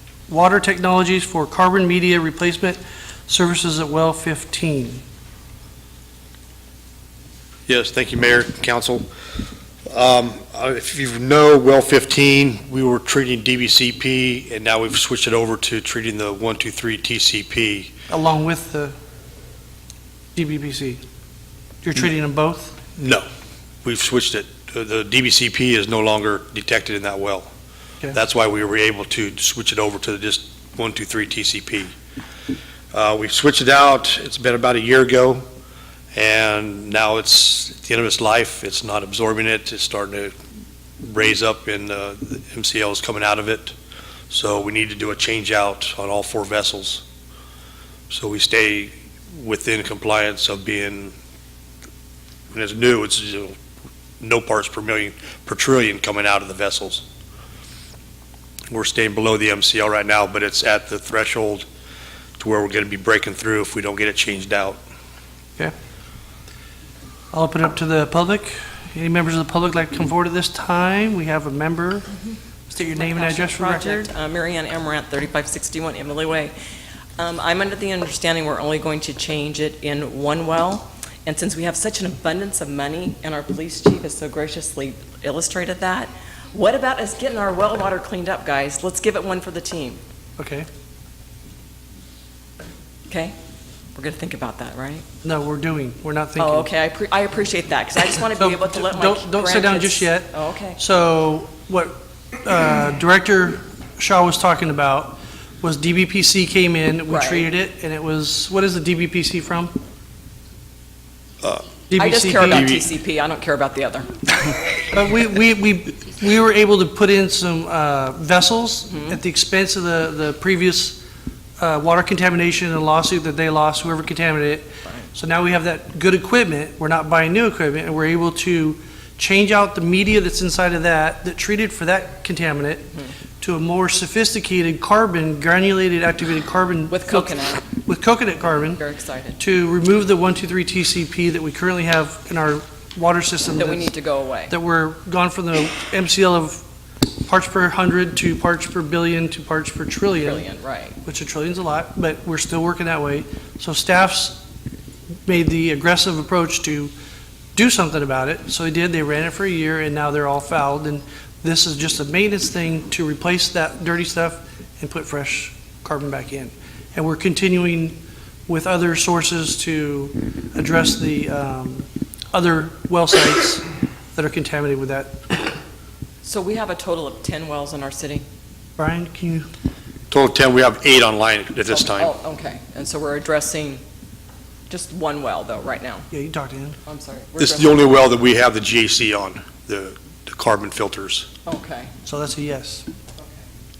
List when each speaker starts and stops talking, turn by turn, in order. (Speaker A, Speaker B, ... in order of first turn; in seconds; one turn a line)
Speaker A: 0.3-5.0
Speaker B: 7.7-9.1
Speaker B: 9.9-17.9
Speaker A: 18.1-18.9
Speaker A: 20.3-21.0
Speaker A: 21.8-22.8
Speaker B: 23.0-23.2
Speaker B: 23.8-27.5
Speaker B: 28.1-31.9
Speaker B: 32.9-35.4
Speaker B: 36.1-40.3
Speaker B: 41.0-43.7
Speaker B: 44.3-47.0
Speaker B: 48.1-51.1
Speaker B: 52.5-53.5
Speaker B: 54.2-57.0
Speaker B: 58.7-61.6
Speaker B: 62.4-64.8
Speaker A: 67.3-72.1
Speaker A: 72.7-74.1
Speaker C: 72.9-76.5
Speaker C: 77.2-90.0
Speaker A: 90.4-90.7
Speaker C: 93.1-93.3
Speaker C: 93.9-95.0
Speaker A: 95.2-96.7
Speaker C: 96.4-100.8
Speaker A: 98.4-109.8
Speaker C: 107.1-107.5
Speaker B: 111.4-111.8
Speaker A: 111.9-112.8
Speaker C: 111.9-114.2
Speaker B: 112.4-112.9
Speaker A: 114.9-121.0
Speaker C: 118.9-119.2
Speaker A: 121.6-138.8
Speaker C: 136.9-137.7
Speaker C: 138.7-139.4
Speaker A: 139.4-143.9
Speaker C: 143.6-144.5
Speaker A: 144.5-146.6
Speaker A: 147.2-150.5
Speaker C: 150.2-151.0
Speaker A: 151.0-154.4
Speaker A: 155.2-156.9
Speaker A: 157.5-175.3
Speaker C: 176.2-178.2
Speaker A: 178.8-179.5
Speaker B: 180.1-182.1
Speaker C: 181.7-183.8
Speaker C: 184.7-186.1
Speaker A: 186.1-186.8
Speaker C: 186.8-188.0
Speaker B: 187.4-191.3
Speaker C: 191.4-191.9
Speaker A: 192.0-192.8